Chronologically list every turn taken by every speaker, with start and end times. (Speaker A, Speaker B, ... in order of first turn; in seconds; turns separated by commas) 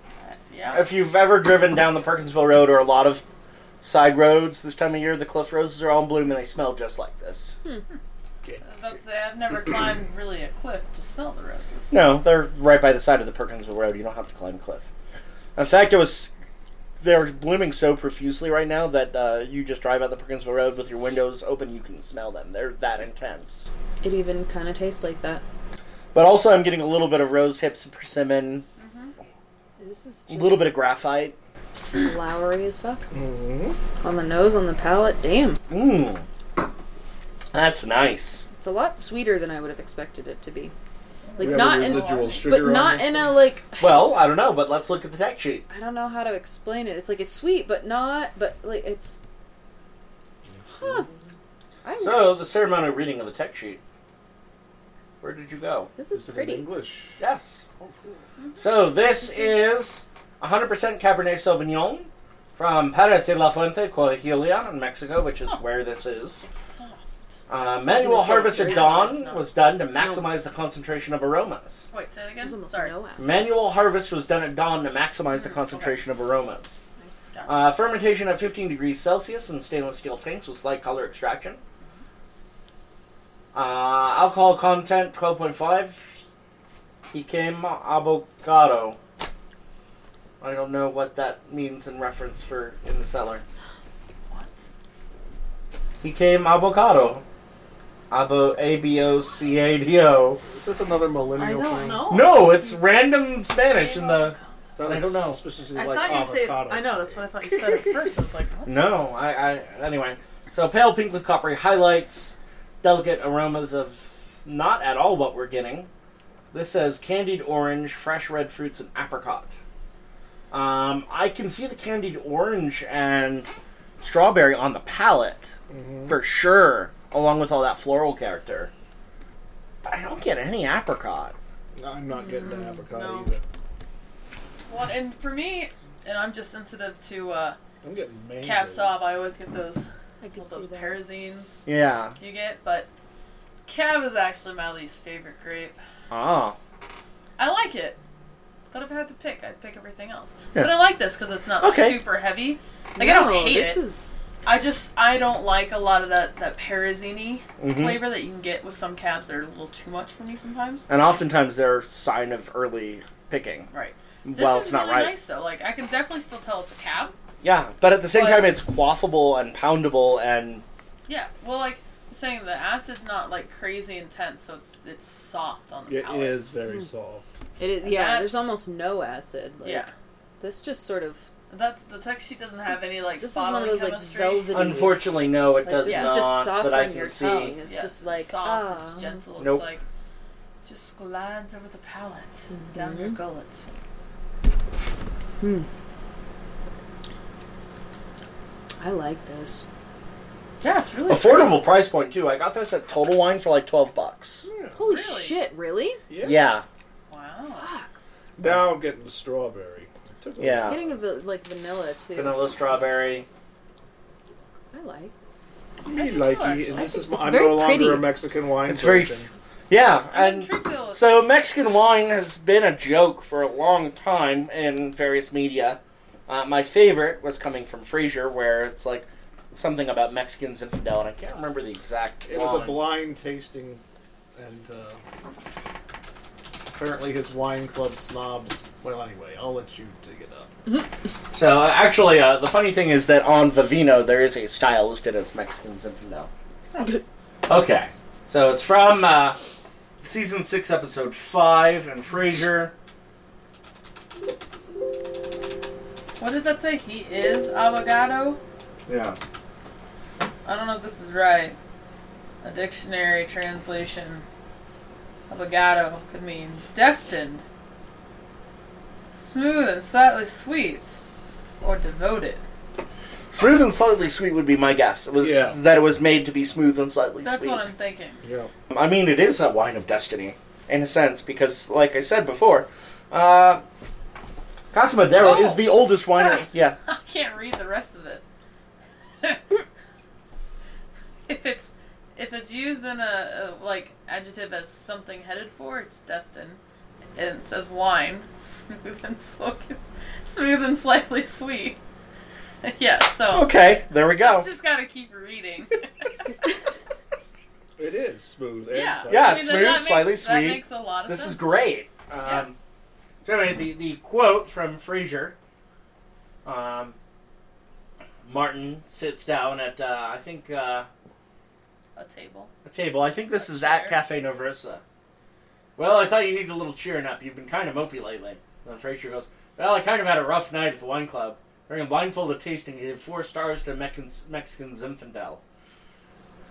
Speaker A: 0.2-0.9, Speaker B: 0.7-3.2, Speaker B: 3.8-7.6, Speaker A: 8.6-12.0, Speaker B: 11.9-14.9, Speaker B: 15.6-16.3, Speaker B: 17.0-23.7, Speaker C: 24.0-25.4, Speaker B: 26.1-28.6, Speaker A: 28.8-29.1, Speaker C: 29.8-30.7, Speaker B: 30.3-31.4, Speaker C: 31.9-33.1, Speaker D: 33.1-33.8, Speaker C: 34.0-35.6, Speaker B: 35.7-36.3, Speaker B: 37.5-38.5, Speaker C: 38.5-40.7, Speaker A: 41.3-42.6, Speaker C: 41.4-44.2, Speaker D: 41.4-43.4, Speaker B: 43.8-45.6, Speaker C: 45.7-49.2, Speaker D: 50.5-51.2, Speaker C: 50.7-51.1, Speaker C: 51.8-52.4, Speaker B: 52.0-53.8, Speaker B: 55.2-55.9, Speaker C: 56.0-56.7, Speaker D: 56.1-57.2, Speaker B: 57.2-57.6, Speaker D: 57.8-58.2, Speaker B: 58.6-66.4, Speaker C: 59.2-59.6, Speaker A: 66.4-67.0, Speaker B: 67.5-71.9, Speaker C: 67.9-69.3, Speaker A: 68.6-69.5, Speaker C: 70.0-70.3, Speaker A: 71.9-72.9, Speaker C: 72.4-73.5, Speaker B: 73.2-76.8, Speaker A: 75.3-76.0, Speaker C: 77.0-77.3, Speaker A: 77.3-77.7, Speaker B: 77.5-81.6, Speaker B: 83.5-86.2, Speaker B: 87.1-89.0, Speaker B: 90.4-93.4, Speaker A: 94.3-94.6, Speaker B: 96.0-97.2, Speaker B: 98.1-100.4, Speaker D: 100.5-102.1, Speaker A: 101.4-102.5, Speaker B: 102.1-105.4, Speaker A: 103.5-104.6, Speaker D: 104.7-107.8, Speaker A: 105.7-108.9, Speaker B: 108.7-115.9, Speaker B: 116.5-119.6, Speaker B: 120.5-125.5, Speaker D: 125.7-126.2, Speaker B: 126.1-128.7, Speaker B: 129.8-131.3, Speaker D: 131.7-133.4, Speaker A: 132.4-133.3, Speaker A: 134.7-137.6, Speaker D: 137.8-138.9, Speaker A: 138.4-141.7, Speaker C: 140.2-141.0, Speaker B: 141.7-142.2, Speaker A: 142.2-142.9, Speaker A: 143.7-145.8, Speaker B: 146.1-146.6, Speaker A: 147.4-148.0, Speaker A: 148.7-153.8, Speaker B: 151.6-152.0, Speaker C: 152.9-154.2, Speaker A: 154.4-160.8, Speaker B: 157.6-158.0, Speaker B: 160.9-163.7, Speaker A: 163.7-167.1, Speaker B: 164.2-165.1, Speaker B: 167.4-170.6, Speaker A: 168.1-168.5, Speaker A: 171.1-176.4, Speaker D: 175.9-177.3, Speaker C: 177.6-179.9, Speaker A: 177.8-178.5, Speaker A: 179.6-179.9, Speaker C: 180.4-181.3, Speaker A: 181.5-184.9, Speaker C: 182.7-189.2, Speaker B: 184.5-187.6, Speaker A: 185.8-186.3, Speaker A: 187.6-189.8, Speaker B: 189.4-189.7, Speaker A: 190.6-193.6, Speaker C: 192.5-193.2, Speaker C: 195.4-195.7, Speaker C: 198.8-199.6, Speaker A: 200.6-201.7, Speaker B: 201.1-204.5, Speaker D: 204.4-204.8, Speaker C: 204.8-206.0, Speaker A: 204.8-205.4, Speaker D: 206.1-206.5, Speaker B: 206.2-206.6, Speaker A: 207.1-207.7, Speaker C: 207.5-207.9, Speaker D: 208.4-210.8, Speaker B: 210.4-210.8, Speaker C: 210.6-212.5, Speaker B: 212.1-213.3, Speaker C: 214.7-215.1, Speaker D: 215.8-219.3, Speaker A: 215.8-216.9, Speaker C: 216.8-218.1, Speaker B: 218.7-232.9, Speaker A: 220.1-221.3, Speaker D: 232.2-233.8, Speaker D: 234.3-235.0, Speaker D: 236.7-240.5, Speaker B: 241.3-246.3, Speaker B: 247.5-249.4, Speaker B: 250.0-252.7, Speaker A: 256.2-258.4, Speaker B: 258.9-259.2, Speaker A: 260.4-261.6, Speaker A: 262.4-264.2, Speaker A: 265.3-267.4, Speaker A: 269.1-271.0, Speaker A: 271.6-272.4, Speaker B: 273.3-277.7, Speaker D: 275.2-275.6, Speaker A: 277.2-278.2, Speaker D: 278.2-278.5, Speaker B: 278.7-283.6, Speaker B: 284.7-286.8, Speaker A: 285.2-288.2, Speaker A: 291.2-296.6, Speaker A: 297.1-301.8, Speaker A: 302.6-303.6, Speaker B: 303.3-304.5, Speaker A: 304.2-305.8, Speaker D: 307.8-309.4, Speaker A: 308.7-311.6, Speaker B: 309.1-312.6, Speaker B: 313.2-315.3, Speaker B: 316.4-317.0, Speaker B: 318.2-320.9, Speaker A: 321.9-322.5, Speaker B: 322.6-324.8, Speaker A: 323.3-324.0, Speaker B: 325.8-335.4